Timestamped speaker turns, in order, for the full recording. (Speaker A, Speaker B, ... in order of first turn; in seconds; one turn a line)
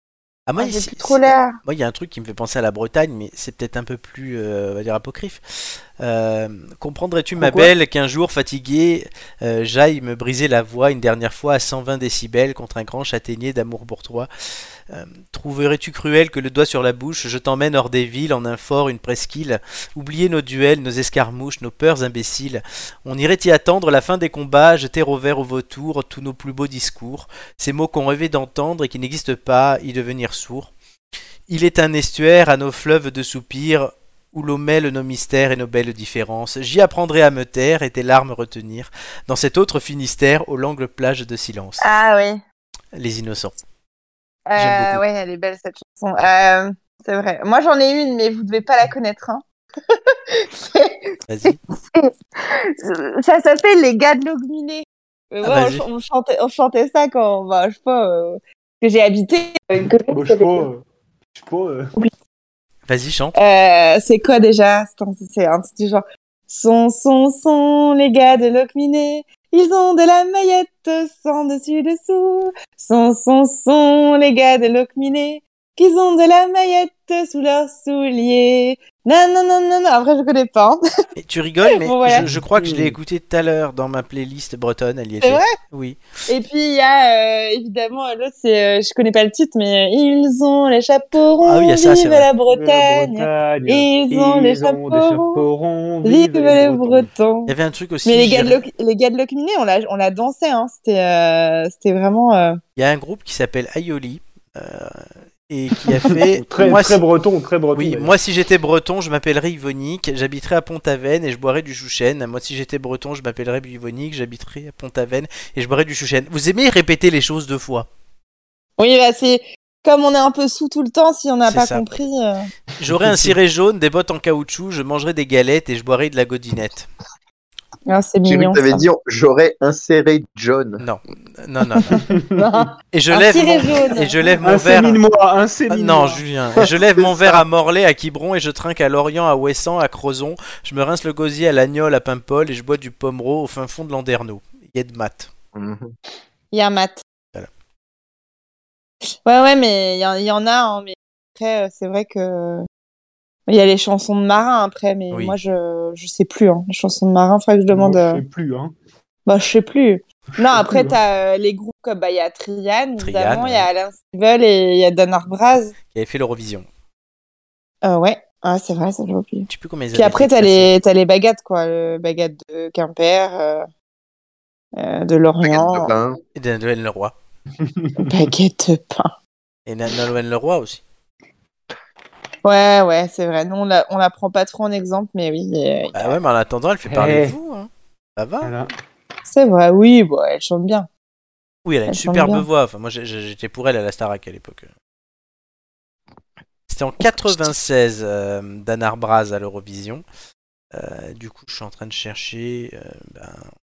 Speaker A: 0.5-14.3
Speaker B: 0.6-1.6
Speaker C: 7.4-7.7
Speaker A: 14.9-30.7
Speaker A: 31.5-41.8
Speaker B: 41.8-42.4
Speaker A: 42.9-43.5
Speaker B: 44.5-49.4
Speaker A: 44.6-45.0
Speaker B: 50.3-51.0
Speaker A: 51.3-51.6
Speaker B: 51.7-60.7
Speaker A: 55.4-55.9
Speaker C: 60.1-61.9
Speaker A: 62.9-63.4
Speaker B: 63.4-80.8
Speaker A: 81.2-86.0
Speaker B: 81.7-82.3
Speaker C: 82.1-83.0
Speaker B: 85.2-85.5
Speaker B: 86.3-95.5
Speaker A: 91.4-92.3
Speaker C: 92.5-97.1
Speaker B: 96.0-97.5
Speaker A: 97.5-98.6
Speaker B: 98.0-102.6
Speaker A: 102.8-107.0
Speaker C: 105.8-108.1
Speaker A: 107.7-117.9
Speaker B: 118.8-122.5
Speaker A: 121.5-121.9
Speaker A: 122.8-126.9
Speaker C: 122.8-123.3
Speaker B: 127.9-128.8
Speaker D: 128.3-130.8
Speaker A: 130.8-132.0
Speaker C: 131.9-132.4
Speaker B: 132.3-134.3
Speaker A: 132.9-135.0
Speaker C: 134.4-136.2
Speaker A: 135.7-145.3
Speaker D: 136.8-137.4
Speaker D: 145.5-145.9
Speaker B: 146.5-147.0
Speaker B: 149.2-152.7
Speaker B: 153.5-158.2
Speaker C: 157.7-158.7
Speaker B: 159.3-165.7
Speaker C: 160.4-161.0
Speaker A: 163.0-163.7
Speaker A: 165.9-166.7
Speaker B: 167.8-173.7
Speaker A: 169.5-170.7
Speaker B: 174.8-175.9
Speaker D: 175.4-176.2
Speaker A: 176.3-177.1
Speaker C: 177.6-178.1
Speaker B: 178.0-179.1
Speaker A: 179.7-180.8
Speaker B: 182.4-186.1
Speaker A: 185.9-188.5
Speaker C: 186.9-187.4
Speaker C: 188.4-188.7
Speaker B: 189.3-190.9
Speaker A: 191.6-194.7
Speaker B: 191.9-192.4
Speaker A: 196.7-200.1
Speaker A: 200.7-203.4